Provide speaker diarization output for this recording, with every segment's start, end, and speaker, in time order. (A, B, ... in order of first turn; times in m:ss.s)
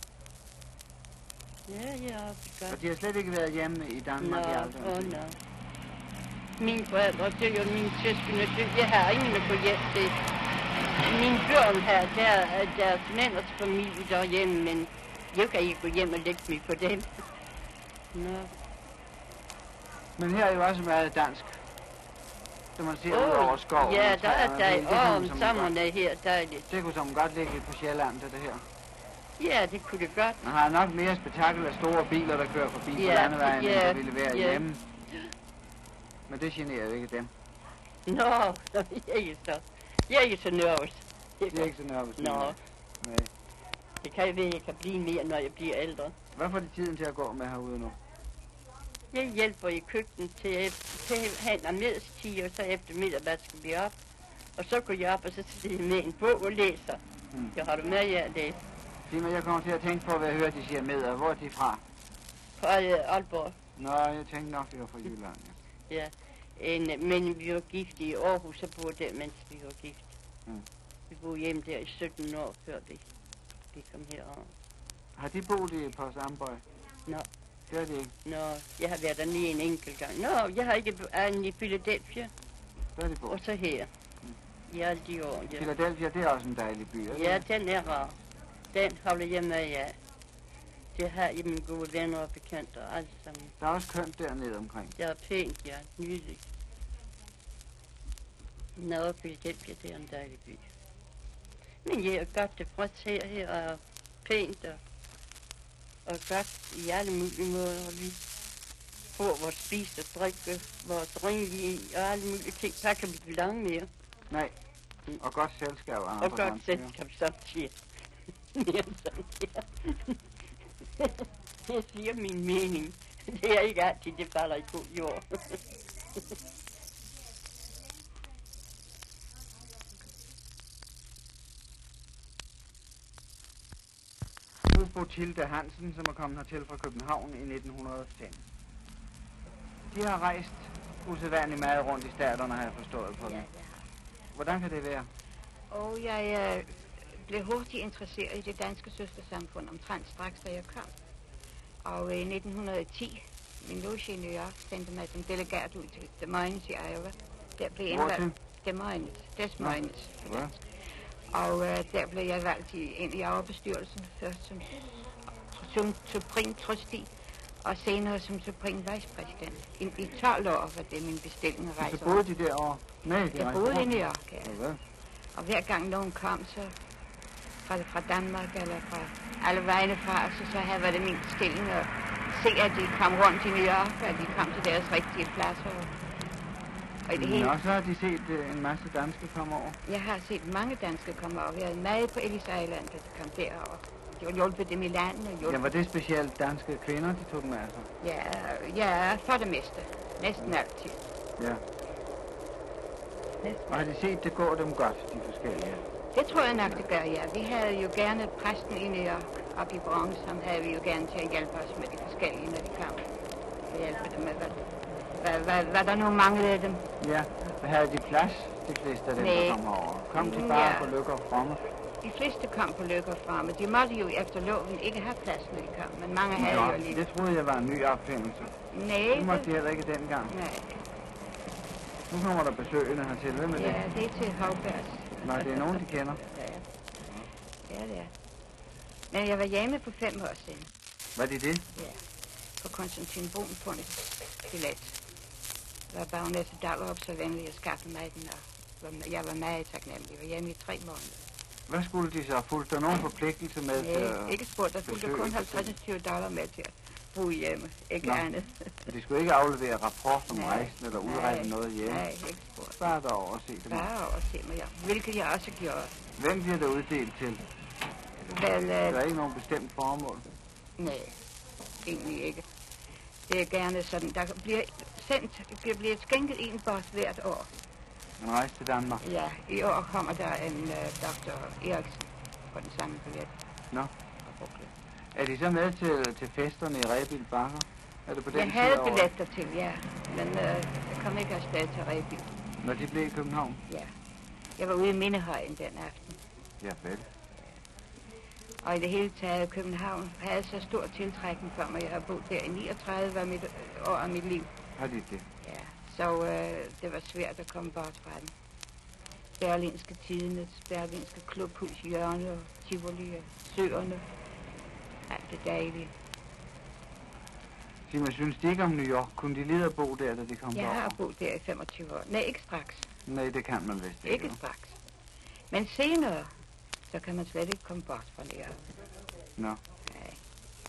0:01.7-0:02.8 A
0:02.7-0:05.1 B
0:04.2-0:05.4 A
0:06.6-0:10.2 A
0:11.0-0:17.1 A
0:18.1-0:18.5 A
0:20.2-0:21.6 B
0:22.8-0:25.7 B
0:23.1-0:26.7 A
0:26.7-0:28.7 B
0:29.4-0:30.5 A
0:30.4-0:34.8 B
0:33.0-0:34.6 A
0:36.3-0:37.3 B
0:38.1-0:42.6 A
0:41.5-0:43.3 B
0:44.0-0:46.2 A
0:46.4-0:48.0 B
0:49.1-0:54.0 A
0:54.6-0:57.0 A
0:57.5-0:58.6 A
0:59.1-1:01.8 B
1:02.6-1:03.6 A
1:03.8-1:05.6 B
1:05.9-1:10.1 A
1:11.1-1:13.0 A
1:13.7-1:14.5 A
1:15.2-1:16.6 B
1:17.7-1:18.1 B
1:18.2-1:22.3 A
1:23.0-1:23.4 B
1:23.3-1:23.9 A
1:24.7-1:25.7 A
1:25.5-1:27.4 B
1:27.1-1:28.2 A
1:28.7-1:30.0 A
1:31.0-1:33.5 A
1:33.6-1:35.0 B
1:35.0-1:36.4 A
1:38.8-1:40.6 A
1:41.8-1:44.8 A
1:46.1-1:48.2 A
1:49.2-1:53.9 A
1:54.3-1:54.6 B
1:55.2-1:56.9 B
1:56.2-1:57.8 A
1:58.6-2:00.2 A
2:01.0-2:05.6 A
2:14.7-2:18.4 B
2:19.9-2:23.5 B
2:23.2-2:23.8 C
2:24.3-2:25.1 B
2:25.7-2:30.9 C
2:31.8-2:40.6 C
2:37.9-2:38.4 B
2:39.6-2:40.5 B
2:41.3-2:47.1 C
2:47.6-2:52.2 C
2:51.8-2:54.8 B
2:53.3-2:54.6 C
2:55.4-2:56.7 C
2:57.6-3:05.9 C
3:07.1-3:07.5 C
3:07.1-3:09.8 B
3:09.9-3:15.7 C
3:15.4-3:17.9 B
3:18.0-3:21.0 C
3:21.4-3:21.6 B
3:23.4-3:23.8 C
3:23.7-3:25.8 B
3:26.1-3:33.0 C
3:26.5-3:26.8 B
3:33.7-3:36.9 C
3:37.0-3:41.6 B
3:39.2-3:40.9 C
3:42.0-3:47.0 C
3:46.4-3:48.5 B
3:48.7-3:49.5 C
3:49.1-3:50.4 B
3:50.3-3:50.8 C
3:52.1-3:53.8 B
3:53.5-3:56.6 C
3:55.2-3:56.2 B
3:57.7-3:58.1 C
3:59.1-4:00.7 C
4:01.2-4:01.7 B
4:01.8-4:02.0 C
4:02.6-4:05.0 C
4:05.9-4:11.2 C
4:11.7-4:15.8 B
4:13.8-4:18.8 C
4:18.9-4:22.0 B
4:20.3-4:22.8 C
4:22.8-4:23.9 B
4:23.7-4:26.0 C
4:26.2-4:27.4 B
4:28.3-4:29.0 C
4:28.9-4:30.3 B
4:30.8-4:31.2 C
4:31.8-4:32.4 C
4:33.3-4:37.5 C
4:38.2-4:39.0 B
4:39.0-4:43.3 C
4:44.2-4:44.7 C
4:45.2-4:49.1 B
4:48.3-4:52.3 C
4:52.6-4:53.6 B
4:54.6-4:56.2 C
4:56.6-4:57.1 B
4:58.6-5:04.5 C
5:04.8-5:05.3 B
5:05.4-5:08.3 C
5:09.4-5:14.1 C
5:15.1-5:15.9 C
5:17.9-5:21.0 B
5:20.5-5:22.9 C
5:23.1-5:24.4 B
5:24.0-5:24.8 C
5:25.5-5:26.3 C
5:26.9-5:28.6 C
5:29.8-5:30.2 C